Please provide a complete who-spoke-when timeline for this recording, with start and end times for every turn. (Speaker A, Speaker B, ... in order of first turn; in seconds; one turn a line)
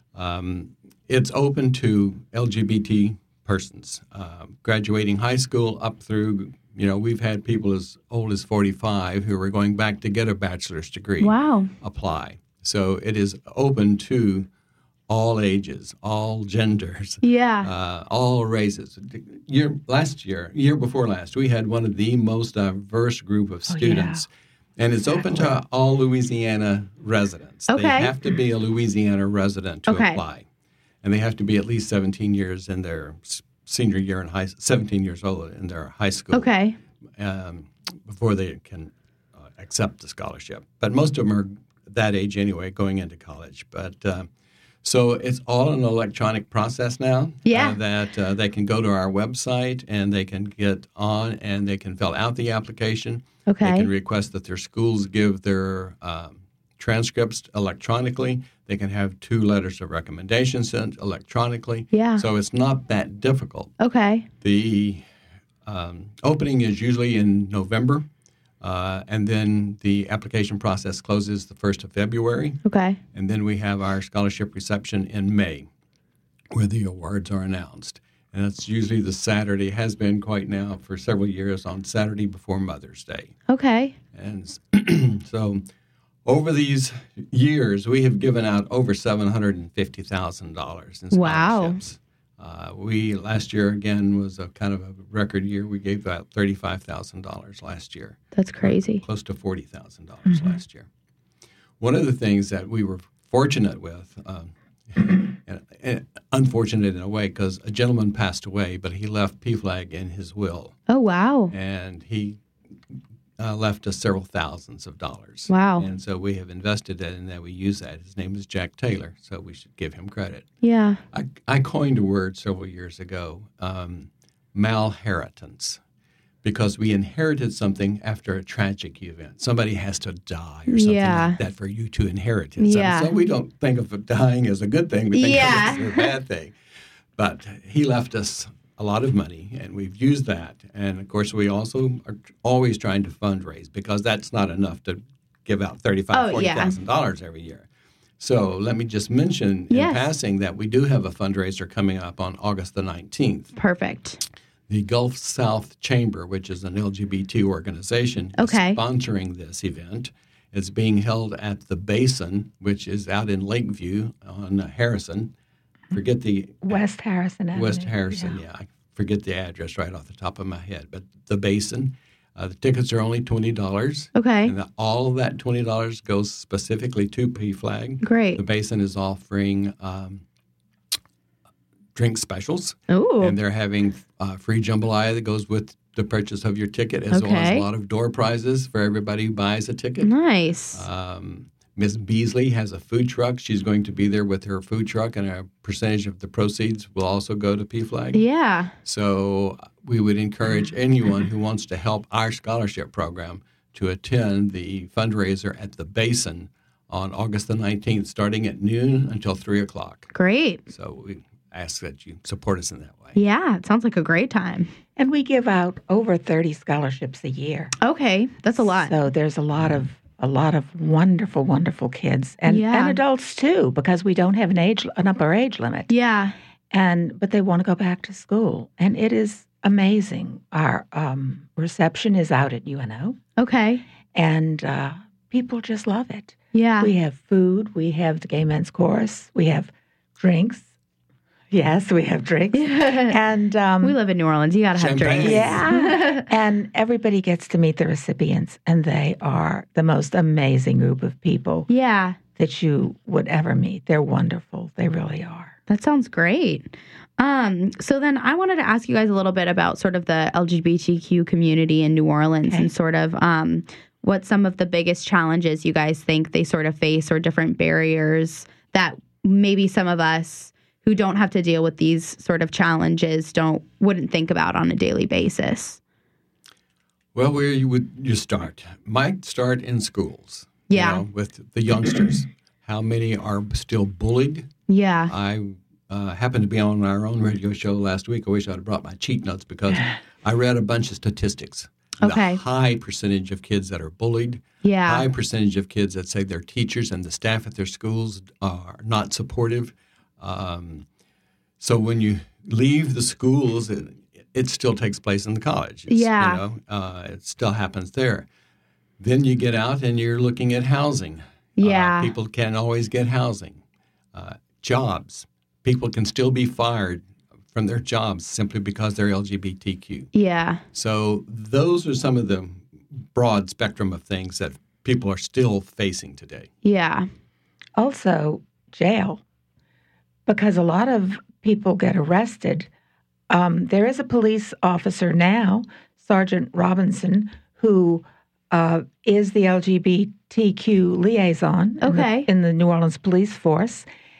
Speaker A: 0.1-14.5
Speaker B: 11.2-11.7
Speaker A: 15.1-30.4
Speaker B: 17.2-17.7
Speaker C: 23.7-24.2
Speaker C: 25.1-25.5
Speaker B: 27.7-28.1
Speaker B: 29.9-30.2
Speaker A: 31.0-36.5
Speaker B: 36.3-36.8
Speaker A: 37.2-38.9
Speaker A: 39.4-44.3
Speaker A: 44.8-63.7
Speaker B: 47.5-47.8
Speaker B: 53.5-53.9
Speaker B: 61.9-62.2
Speaker B: 63.8-64.3
Speaker A: 64.4-65.0
Speaker A: 65.7-68.1
Speaker A: 68.6-72.6
Speaker B: 72.6-73.0
Speaker A: 73.1-75.7
Speaker A: 76.5-83.3
Speaker B: 83.5-83.9
Speaker A: 84.1-85.6
Speaker A: 86.2-100.9
Speaker B: 91.1-91.8
Speaker B: 98.3-99.0
Speaker A: 101.8-110.8
Speaker B: 110.9-111.5
Speaker A: 111.5-112.4
Speaker A: 113.4-120.5
Speaker B: 115.5-115.9
Speaker B: 120.6-121.0
Speaker A: 121.1-125.8
Speaker A: 126.4-136.5
Speaker B: 130.7-131.4
Speaker B: 132.6-133.1
Speaker B: 135.1-136.1
Speaker A: 137.2-147.7
Speaker B: 146.1-146.8
Speaker A: 148.2-153.5
Speaker B: 149.7-150.1
Speaker B: 153.6-154.2
Speaker A: 154.7-165.3
Speaker B: 158.4-158.8
Speaker A: 165.9-166.8
Speaker C: 166.6-168.4
Speaker A: 167.5-180.2
Speaker B: 174.1-174.5
Speaker B: 178.0-178.4
Speaker A: 181.9-190.1
Speaker B: 182.9-183.3
Speaker B: 187.1-187.7
Speaker B: 190.0-190.8
Speaker A: 190.7-198.2
Speaker B: 198.1-198.7
Speaker A: 198.8-210.1
Speaker B: 210.1-210.6
Speaker A: 210.7-213.2
Speaker B: 213.2-214.7
Speaker C: 214.9-217.7
Speaker B: 217.8-218.9
Speaker C: 218.6-225.9
Speaker B: 222.4-223.0
Speaker B: 225.9-226.3
Speaker C: 226.7-233.2
Speaker B: 233.4-233.8
Speaker C: 234.1-240.7
Speaker B: 236.5-236.9
Speaker C: 241.5-244.0
Speaker B: 242.5-243.2
Speaker B: 243.8-246.3
Speaker A: 244.7-245.7
Speaker C: 245.2-251.7
Speaker B: 251.7-252.2
Speaker C: 252.4-255.5
Speaker B: 255.7-275.8
Speaker C: 262.5-262.7
Speaker A: 277.1-284.5
Speaker B: 280.7-281.0
Speaker B: 284.7-285.1
Speaker A: 285.1-300.8
Speaker B: 292.0-292.4
Speaker B: 294.6-295.1
Speaker A: 301.6-308.2
Speaker B: 305.9-306.4
Speaker A: 309.0-313.6
Speaker B: 311.6-312.1
Speaker A: 314.1-320.1
Speaker B: 320.1-320.6
Speaker A: 320.7-326.5
Speaker B: 326.6-327.1
Speaker C: 327.8-329.2
Speaker C: 330.3-332.7
Speaker C: 333.3-343.9
Speaker B: 341.8-342.3